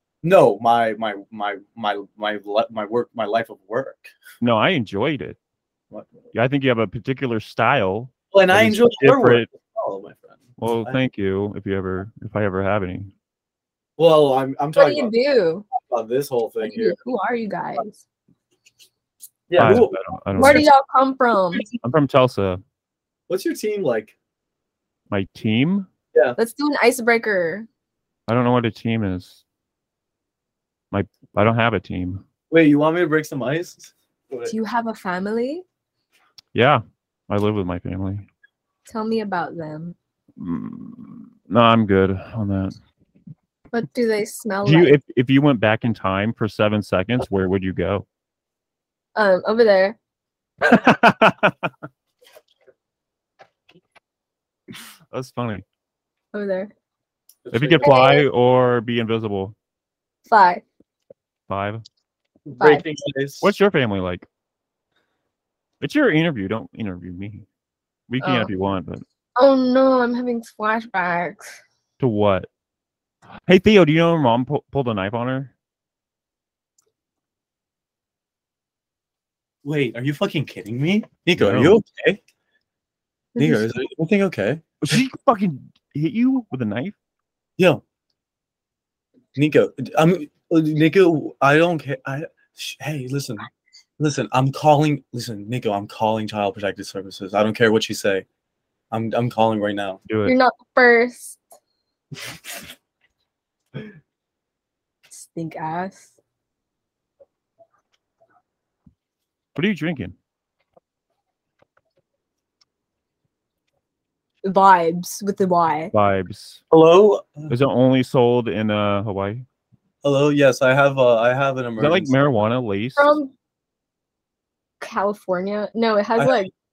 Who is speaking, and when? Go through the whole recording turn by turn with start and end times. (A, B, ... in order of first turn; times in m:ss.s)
0:00.2-0:04.1 A
0:04.4-0:05.4 B
0:05.9-0:06.3 A
0:06.3-0:09.5 B
0:08.3-0:11.0 A
0:10.6-0:13.1 B
0:14.0-0:15.1 A
0:14.8-0:15.7 C
0:15.7-0:17.0 A
0:16.6-0:18.0 C
0:19.5-0:20.6 A
0:19.6-0:20.7 B
0:20.4-0:21.6 C
0:21.8-0:22.6 B
0:23.3-0:24.1 A
0:25.1-0:25.9 B
0:26.4-0:27.7 C
0:28.3-0:29.4 B
0:30.9-0:32.2 B
0:32.5-0:34.5 A
0:34.5-0:35.6 C
0:36.5-0:38.3 B
0:38.9-0:39.9 C
0:40.4-0:42.7 B
0:43.7-0:44.9 C
0:44.6-0:48.0 B
0:49.1-0:50.0 C
0:50.6-0:51.7 B
0:55.1-0:55.6 B
0:56.3-0:56.7 C
0:57.4-0:58.0 A
0:57.5-0:59.5 B
0:57.8-0:58.2 C
1:00.3-1:00.6 C
1:01.5-1:01.8 B
1:02.4-1:03.5 A
1:02.6-1:02.8 C
1:03.4-1:04.2 B
1:05.8-1:07.4 B
1:08.1-1:09.0 B
1:08.2-1:08.5 C
1:09.4-1:11.5 C
1:12.0-1:12.5 B
1:13.5-1:15.5 B
1:19.6-1:22.2 A
1:21.4-1:21.8 B
1:23.3-1:23.7 C
1:23.4-1:25.0 A
1:24.8-1:27.0 B
1:29.3-1:33.5 A
1:34.0-1:38.2 A
1:38.9-1:40.0 A
1:40.1-1:40.3 B
1:40.2-1:41.4 C
1:45.1-1:46.1 C
1:49.5-1:50.1 B
1:54.4-1:55.9 C
1:55.9-1:56.6 B
1:56.7-1:57.5 A
1:57.5-1:59.4 B
2:00.0-2:02.2 A
2:01.8-2:03.1 B
2:03.0-2:03.3 C
2:04.8-2:06.5 C
2:06.2-2:06.5 A